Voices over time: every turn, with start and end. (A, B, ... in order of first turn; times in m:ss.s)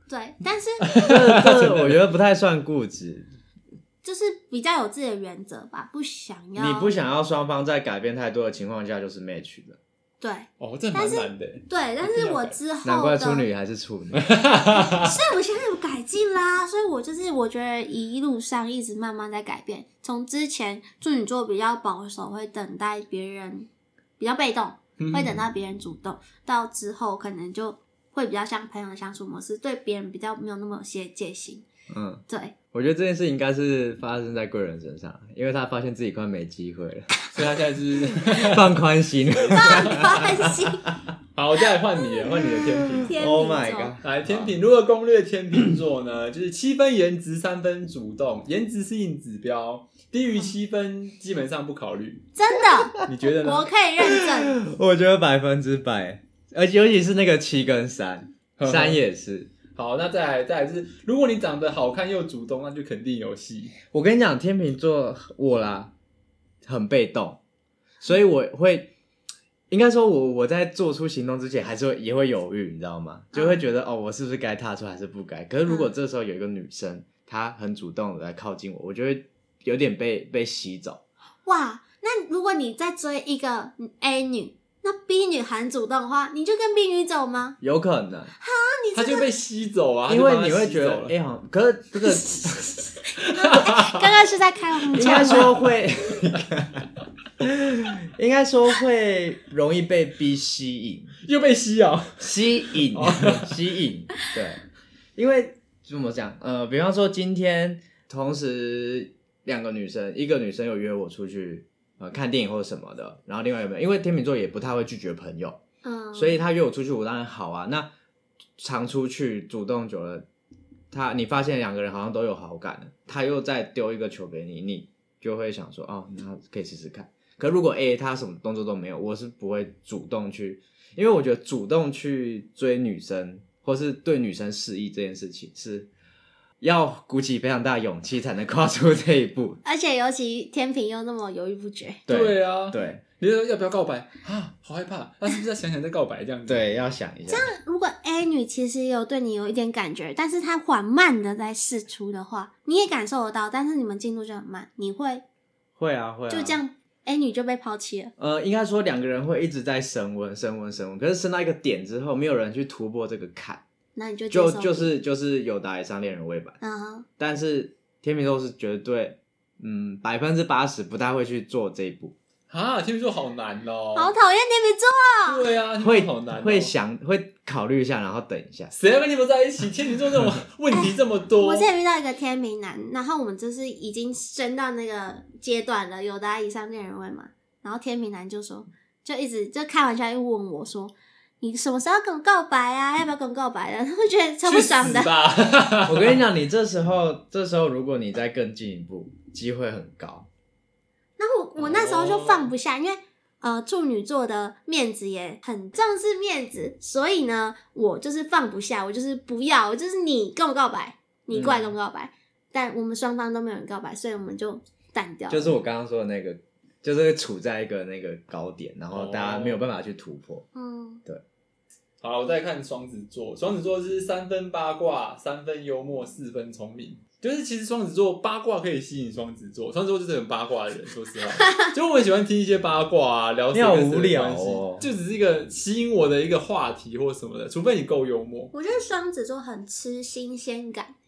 0:00.1-0:00.9 A
0:00.8-0:02.0 B
0:01.0-0:03.3 C
0:04.0-0:06.9 A
0:06.6-0:09.8 C
0:10.2-0:13.5 A
0:10.6-0:12.6 B
0:12.8-0:14.3 C
0:14.1-0:15.2 B
0:14.8-0:31.6 A
0:25.0-0:25.4 B
0:31.9-0:37.1 C
0:32.3-0:32.6 A
0:37.3-0:38.8 B
0:38.3-0:40.6 C
0:39.4-0:40.9 A
0:39.5-0:40.3 B
0:41.4-0:43.2 B
0:42.2-0:44.0 A
0:42.7-0:44.5 C
0:44.0-0:52.3 B
0:52.4-0:54.6 A
0:53.0-0:53.7 B
0:54.0-0:59.5 C
0:58.6-0:59.0 B
0:59.7-1:03.8 B
1:03.9-1:05.9 C
1:06.6-1:07.4 C
1:08.0-1:08.9 C
1:09.7-1:21.0 C
1:13.3-1:13.6 A
1:21.4-1:27.6 A
1:27.6-1:28.3 C
1:28.4-1:29.3 A
1:28.9-1:31.1 B
1:30.1-1:32.7 C
1:32.1-1:35.5 A
1:33.3-1:34.1 B
1:34.9-1:36.9 C
1:35.0-1:35.5 B
1:37.4-1:41.1 C
1:41.2-1:43.6 B
1:42.2-1:44.6 C
1:45.2-1:55.6 C
1:55.8-1:56.4 A
1:56.1-1:57.9 C
1:58.6-2:00.3 C
2:00.9-2:15.9 C
2:16.6-2:19.6 C
2:19.6-2:22.0 A
2:22.1-2:23.0 C
2:22.1-2:26.7 B
2:26.5-2:27.5 C
2:27.3-2:35.2 A
2:35.8-2:36.6 C
2:36.3-2:38.1 A
2:38.2-2:43.6 C
2:44.0-2:44.9 A
2:44.3-2:46.6 C
2:46.6-2:47.1 A
2:47.2-2:52.2 C
2:52.5-2:54.1 B
2:54.0-2:55.4 A
2:55.3-2:56.7 B
2:55.8-2:58.7 C
2:58.7-3:01.7 B
3:00.7-3:15.1 A
3:14.4-3:16.2 B
3:15.9-3:20.3 C
3:21.2-3:35.6 A
3:21.6-3:22.5 B
3:31.3-3:31.8 C
3:35.3-3:40.5 C
3:38.9-3:39.6 B
3:40.6-3:41.0 A
3:42.0-3:58.5 B
3:53.5-3:54.9 C
3:58.5-4:00.9 A